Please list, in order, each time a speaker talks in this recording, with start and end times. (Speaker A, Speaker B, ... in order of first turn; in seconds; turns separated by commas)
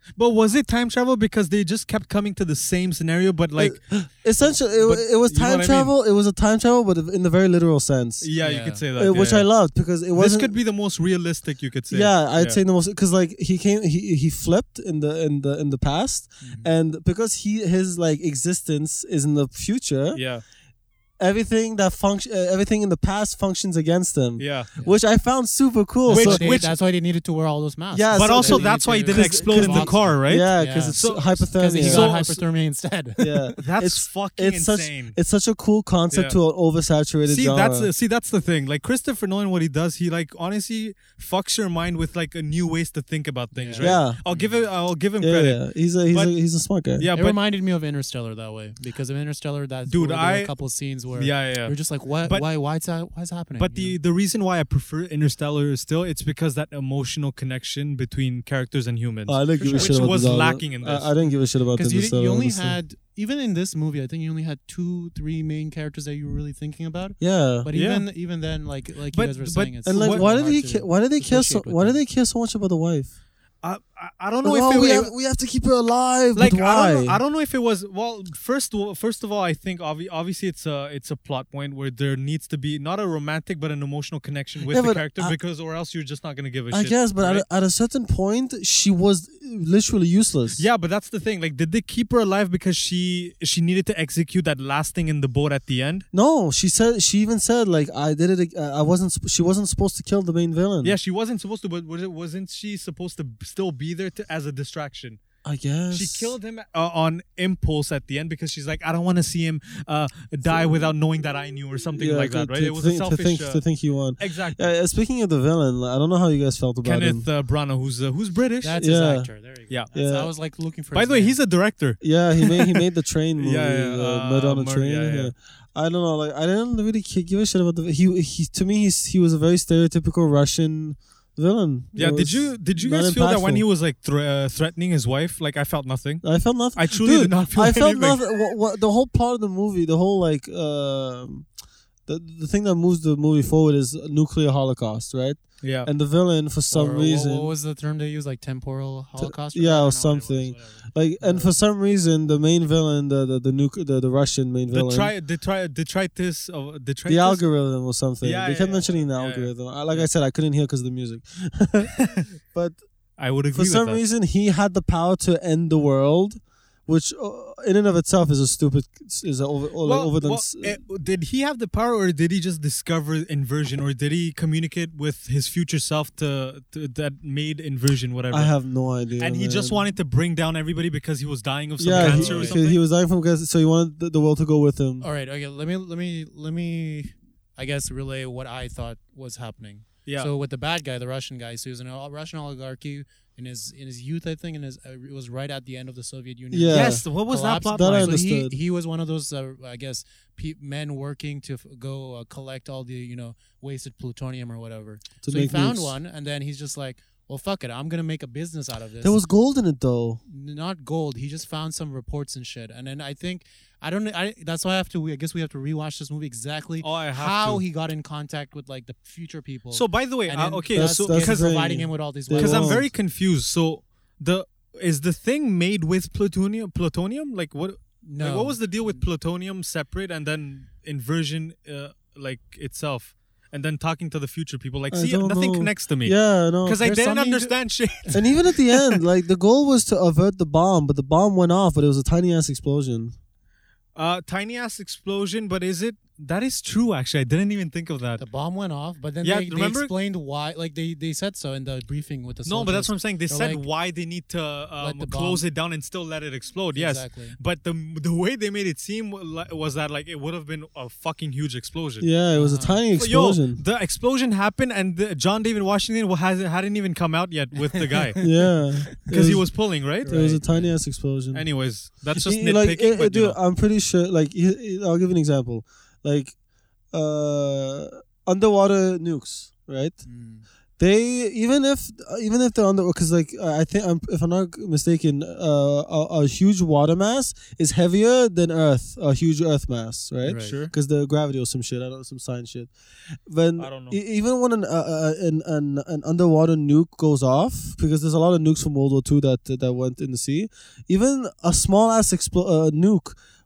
Speaker A: 0.2-3.8, Speaker B: 3.6-8.3, Speaker A: 4.8-5.9, Speaker A: 8.2-9.5, Speaker C: 8.4-8.8, Speaker B: 8.9-10.5, Speaker A: 10.1-12.6, Speaker B: 11.9-20.2, Speaker C: 16.4-16.7, Speaker A: 20.1-20.4, Speaker B: 21.2-26.5, Speaker A: 24.4-24.7, Speaker C: 26.1-33.5, Speaker A: 26.1-26.7, Speaker B: 27.9-32.1, Speaker A: 28.1-32.4, Speaker B: 33.2-37.9, Speaker A: 33.6-35.2, Speaker A: 36.1-36.4, Speaker A: 37.2-46.3, Speaker C: 43.5-44.6, Speaker B: 43.8-44.2, Speaker B: 45.2-47.1, Speaker A: 47.0-47.4, Speaker C: 47.1-54.0, Speaker A: 49.9-50.5, Speaker A: 51.1-52.5, Speaker A: 53.6-61.1, Speaker B: 59.3-62.8, Speaker C: 59.5-60.1, Speaker C: 61.7-72.0, Speaker B: 67.2-67.7, Speaker A: 67.7-68.1, Speaker A: 69.1-70.2, Speaker B: 69.8-73.1, Speaker A: 73.6-75.1, Speaker B: 74.4-77.2, Speaker A: 76.3-87.4, Speaker B: 84.7-85.3, Speaker B: 86.7-90.6, Speaker A: 90.6-96.0, Speaker B: 96.1-101.0, Speaker A: 100.8-105.2, Speaker B: 105.4-106.3, Speaker A: 105.9-113.6, Speaker B: 110.5-110.9, Speaker B: 112.0-117.2, Speaker A: 114.2-114.7, Speaker A: 116.8-118.8, Speaker C: 118.6-121.4, Speaker B: 118.8-119.3, Speaker B: 119.9-120.3, Speaker A: 120.9-122.8, Speaker B: 122.0-133.6, Speaker A: 123.4-125.3, Speaker A: 131.9-138.2, Speaker B: 136.2-141.5, Speaker B: 142.1-147.5, Speaker A: 145.6-145.9, Speaker C: 146.7-151.5, Speaker B: 149.2-155.1, Speaker A: 154.7-157.4, Speaker B: 157.1-162.8, Speaker A: 158.2-160.1, Speaker A: 161.9-162.3, Speaker A: 163.2-164.0, Speaker B: 163.5-170.8, Speaker A: 169.8-178.5, Speaker B: 178.3-179.8, Speaker A: 179.2-182.8, Speaker B: 181.8-185.0, Speaker C: 181.9-182.6, Speaker C: 185.0-209.2, Speaker B: 196.5-197.0, Speaker A: 196.7-198.2, Speaker B: 197.7-198.6, Speaker B: 205.2-205.9, Speaker B: 209.0-210.2, Speaker C: 210.3-222.9, Speaker A: 216.8-217.6, Speaker A: 219.7-221.6, Speaker B: 220.7-222.8, Speaker A: 222.3-239.0, Speaker C: 228.0-229.0, Speaker B: 234.9-236.8, Speaker C: 236.8-238.1, Speaker B: 238.1-243.1, Speaker A: 243.9-248.2, Speaker C: 248.2-253.6, Speaker A: 249.2-249.9, Speaker A: 252.4-262.1, Speaker C: 254.8-255.4, Speaker C: 256.7-257.4, Speaker B: 262.0-263.6, Speaker C: 262.3-262.8, Speaker A: 262.9-268.3, Speaker C: 267.6-268.5, Speaker B: 268.2-269.5, Speaker A: 269.0-270.2, Speaker C: 270.0-270.7, Speaker B: 270.0-271.4, Speaker A: 271.3-273.4, Speaker B: 272.1-276.3, Speaker B: 276.9-280.0, Speaker C: 280.0-280.4, Speaker B: 280.8-292.7, Speaker C: 290.2-290.6, Speaker A: 290.3-290.7, Speaker B: 293.3-303.2, Speaker A: 293.6-293.9